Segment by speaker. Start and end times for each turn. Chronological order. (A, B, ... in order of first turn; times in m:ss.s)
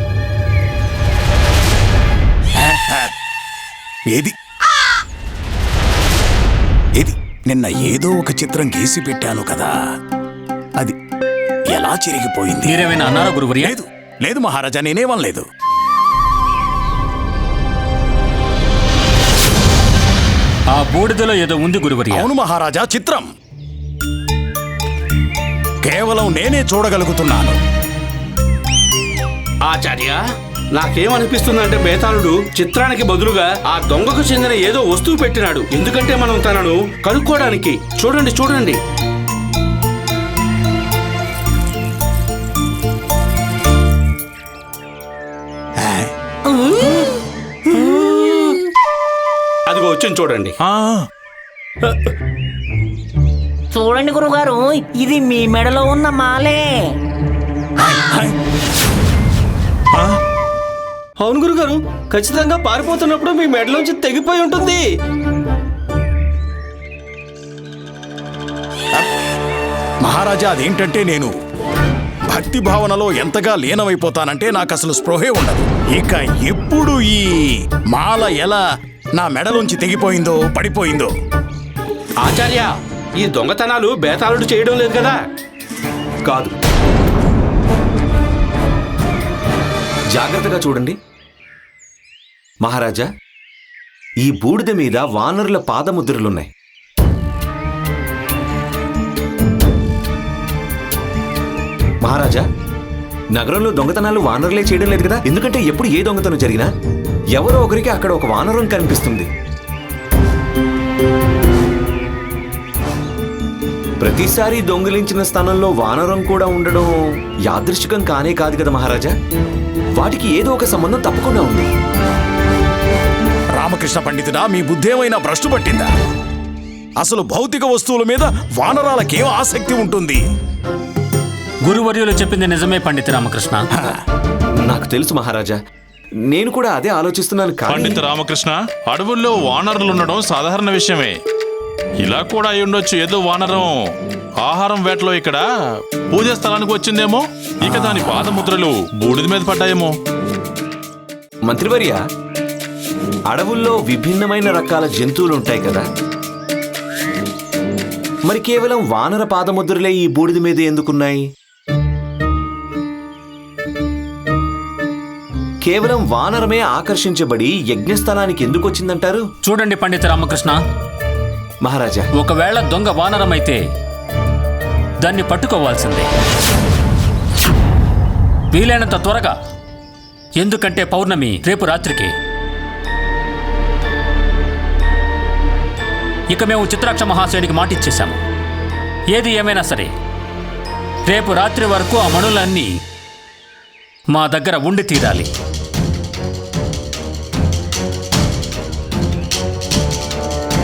0:02.6-0:03.1 A
0:07.0-0:09.8 A
0:11.7-0:12.8 A
0:12.6-0:13.7 B
0:13.6-0:15.5 A
0:20.7-0:22.3 B
0:22.1-0:23.3 A
0:25.8-0:27.6 A
0:29.7-0:30.2 C
0:30.8-0:38.8 C
0:45.8-0:46.1 A
0:46.5-0:48.6 D
0:49.7-0:50.6 C
0:50.7-0:51.0 E
0:53.7-0:56.8 D
0:57.8-0:58.3 A
1:01.2-1:04.9 F
1:10.0-1:11.3 A
1:12.3-1:18.6 A
1:19.2-1:21.1 A
1:22.2-1:22.7 C
1:23.2-1:25.2 C
1:26.3-1:26.5 G
1:30.2-1:31.0 G
1:32.6-1:33.1 G
1:34.2-1:36.5 G
1:42.0-1:42.4 G
1:43.4-1:46.7 G
1:47.4-1:49.3 G
1:54.0-1:56.9 G
1:57.5-1:59.1 G
2:00.0-2:01.7 G
2:03.6-2:05.9 A
2:07.0-2:10.2 A
2:11.6-2:13.6 B
2:13.7-2:14.0 A
2:14.6-2:15.6 G
2:16.3-2:18.0 G
2:17.7-2:21.2 E
2:22.0-2:25.4 E
2:26.1-2:30.0 E
2:31.5-2:32.0 G
2:33.3-2:35.9 G
2:38.3-2:41.2 G
2:45.6-2:49.2 G
2:49.4-2:50.6 B
2:51.6-2:52.1 G
2:52.2-2:53.6 B
2:55.0-2:56.1 B
2:58.5-2:59.4 B
3:00.4-3:02.1 B
3:06.3-3:08.2 B
3:09.1-3:09.9 B
3:11.1-3:12.7 B
3:14.1-3:15.3 B